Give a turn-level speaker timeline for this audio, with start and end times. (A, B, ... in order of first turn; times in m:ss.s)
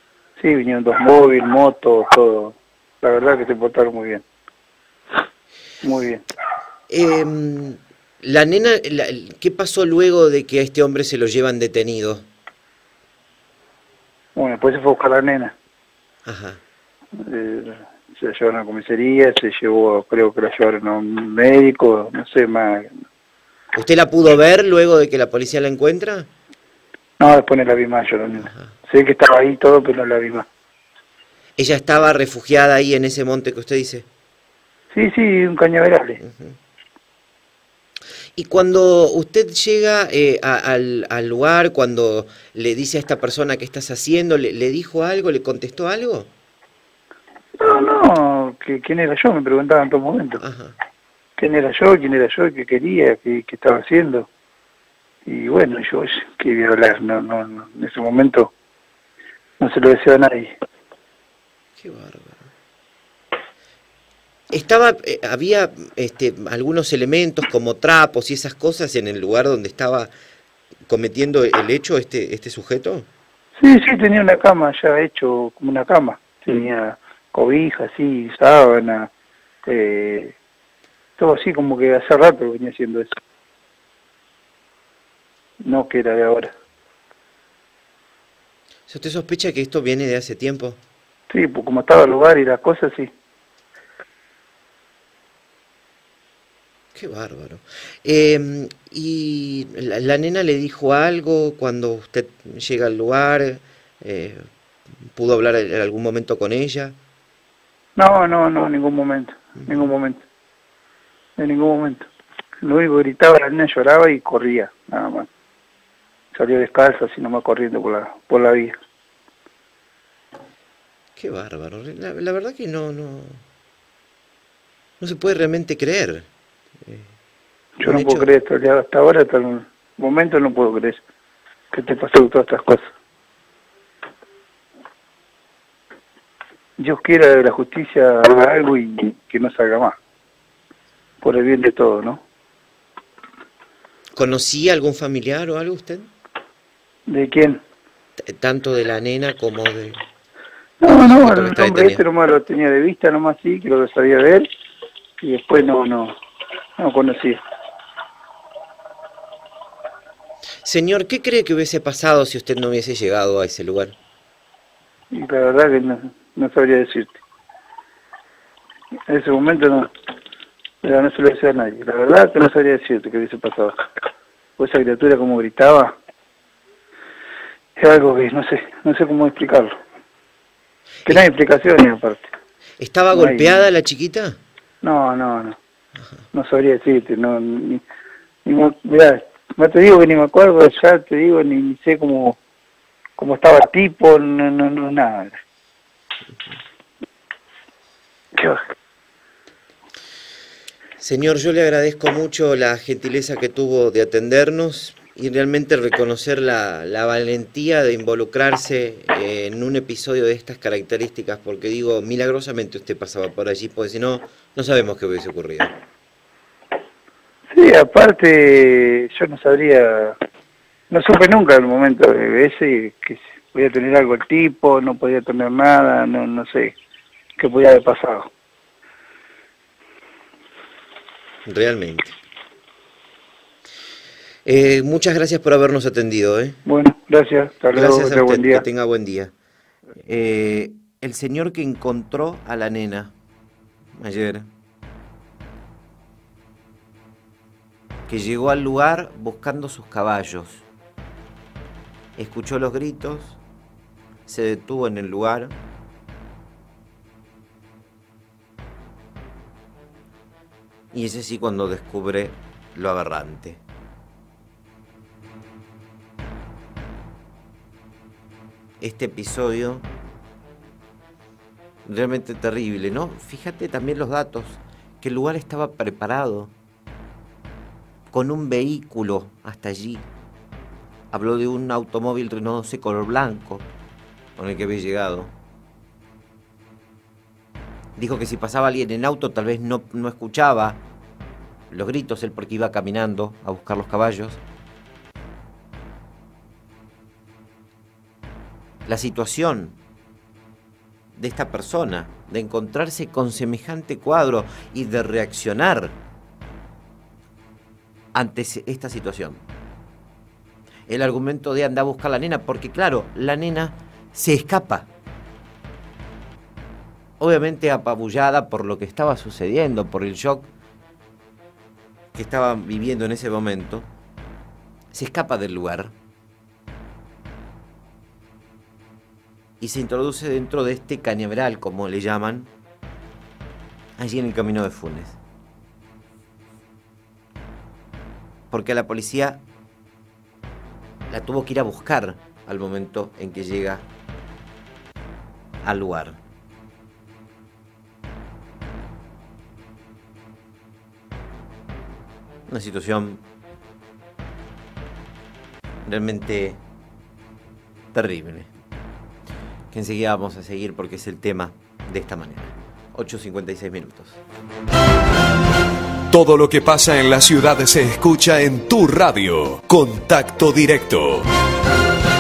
0:00.4-0:04.2 A
0:05.8-0:06.2 A
0:06.9-0:12.3 B
0:14.4-0:15.5 A
0:16.3-0:16.6 B
0:17.2-0:23.0 A
0:23.7-0:26.3 B
0:27.2-0:30.5 A
0:31.6-0:34.1 B
0:34.9-0:36.2 A
0:36.2-0:36.6 B
0:38.4-0:46.3 B
0:47.6-0:50.4 A
0:50.4-0:50.8 B
0:51.4-0:54.3 A
0:55.3-0:58.5 A
0:59.6-1:00.6 A
1:01.8-1:02.5 B
1:04.5-1:10.1 B
1:10.9-1:13.1 B
1:13.6-1:19.1 A
1:19.7-1:20.4 A
1:21.2-1:23.2 A
1:25.6-1:26.5 A
1:28.9-1:30.8 B
1:31.3-1:33.1 A
1:37.0-1:44.5 B
1:45.1-1:47.0 B
1:48.0-1:50.2 A
1:51.4-1:52.1 A
1:52.6-1:55.3 A
1:56.3-1:58.8 A
2:01.2-2:03.4 B
2:05.0-2:06.3 B
2:07.8-2:11.0 A
2:07.8-2:08.3 B
2:11.7-2:12.9 A
2:16.8-2:20.0 A
2:21.2-2:22.2 A
2:24.2-2:26.1 B
2:27.1-2:27.6 A
2:28.3-2:30.0 B
2:30.8-2:34.5 A
2:30.9-2:32.0 B
2:35.2-2:36.2 A
2:36.8-2:37.4 A
2:40.6-2:44.0 B
2:45.1-2:47.2 A
2:49.1-2:49.9 A
2:50.8-2:53.7 A
2:54.6-2:55.9 A
2:57.8-2:59.7 A
3:01.1-3:02.3 A
3:02.8-3:04.4 B
3:03.1-3:03.7 A
3:04.8-3:05.6 A
3:06.3-3:07.8 A
3:08.5-3:12.4 A
3:13.2-3:15.4 A
3:21.0-3:35.7 B
3:37.5-3:40.2 A
3:40.9-3:46.8 A
3:47.4-3:48.3 A
3:51.5-3:52.2 B
3:54.5-3:56.6 B
3:56.7-3:58.6 A
3:57.7-3:59.3 B
4:00.0-4:03.1 B
4:04.0-4:04.5 B
4:08.1-4:10.7 B
4:12.2-4:13.4 B
4:14.3-4:15.6 B
4:20.9-4:23.6 B
4:28.8-4:29.9 B
4:31.9-4:36.5 B
4:38.1-4:40.1 B
4:41.1-4:43.7 B
4:44.4-4:45.3 B
4:48.0-4:50.8 B
4:51.7-4:54.4 B
4:58.9-4:59.8 B
5:01.1-5:06.0 B
5:08.2-5:09.4 B
5:10.9-5:14.9 B
5:17.2-5:20.5 B
5:22.1-5:23.9 B
5:24.9-5:25.9 B
5:29.6-5:32.5 B
5:34.0-5:35.2 B
5:38.5-5:39.4 B
5:41.1-5:43.9 B
5:45.6-5:46.2 B
5:52.5-5:53.2 B
5:55.8-5:56.6 B
5:57.9-5:58.5 B
5:59.7-6:04.2 B
6:06.1-6:11.3 C